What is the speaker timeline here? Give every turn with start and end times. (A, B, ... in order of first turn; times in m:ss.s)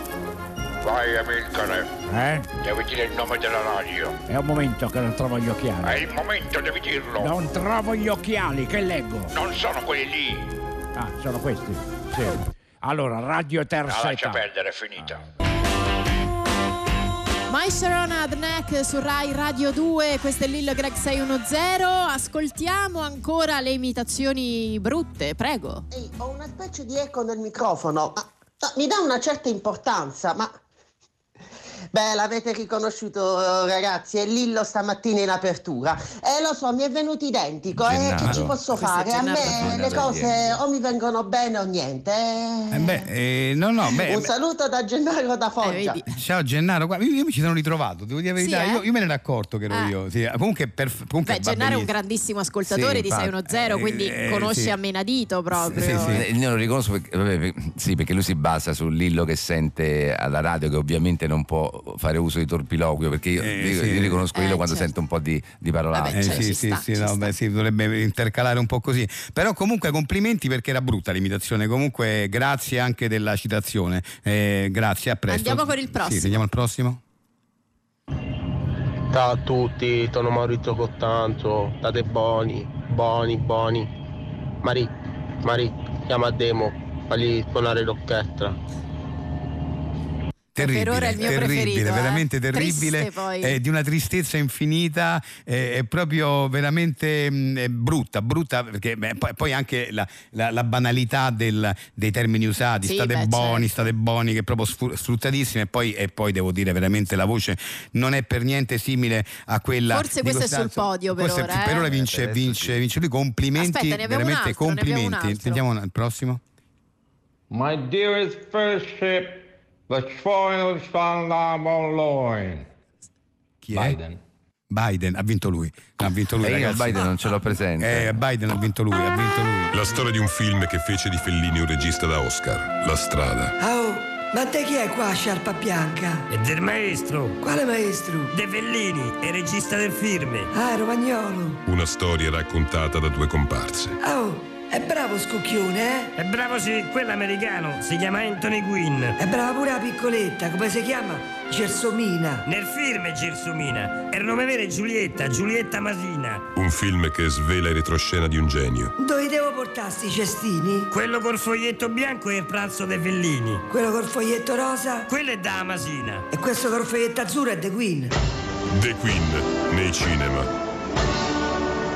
0:00.8-0:01.9 A
0:02.1-0:02.5 B
0:02.6-0:04.2 A
0:04.3-0:06.0 B
0:05.8-0:07.4 A
0:07.2-0:09.3 B
0:09.3-0:10.6 A
0:11.0-0:14.4 B
0:13.8-0:15.2 A
0:17.5-0:25.8 C
0:25.9-0:30.5 D
0:31.9-0:43.0 D
0:37.8-0:38.6 E
0:38.2-0:38.5 F
0:38.6-0:40.2 C
0:39.4-0:40.4 E
0:42.7-0:44.3 F
0:43.9-0:46.0 D
0:45.6-0:46.0 C
0:46.1-0:51.9 F
0:48.4-0:48.9 C
0:49.7-0:50.0 C
0:51.2-0:56.2 C
0:52.7-0:54.8 F
0:53.0-0:53.3 E
0:55.6-1:06.5 E
0:55.7-0:56.3 F
1:03.4-1:04.2 F
1:04.3-1:04.9 C
1:05.9-1:07.3 C
1:06.1-1:17.0 F
1:15.3-1:16.4 C
1:19.1-1:23.9 G
1:24.6-1:24.9 G
1:25.4-1:28.6 G
1:30.6-1:56.4 F
1:30.6-1:33.6 C
1:42.8-1:43.9 C
1:49.9-1:51.8 C
1:51.6-1:52.8 E
1:53.6-1:55.6 C
1:57.5-2:02.7 H
2:03.6-2:04.0 F
2:03.7-2:04.2 H
2:04.7-2:10.0 F
2:06.4-2:08.2 E
2:09.7-2:13.6 I
2:13.6-2:16.3 J
2:16.3-2:17.4 K
2:17.4-2:18.3 J
2:18.3-2:20.5 K
2:20.5-2:21.6 J
2:21.6-2:24.0 I
2:24.0-2:26.1 J
2:26.2-2:29.2 K
2:29.2-2:32.4 J
2:32.4-2:36.4 K
2:36.5-2:38.9 I
2:39.0-2:40.9 J
2:40.9-2:43.6 K
2:43.7-2:45.1 J
2:45.1-2:46.3 K
2:46.3-2:48.1 J
2:48.7-2:50.5 I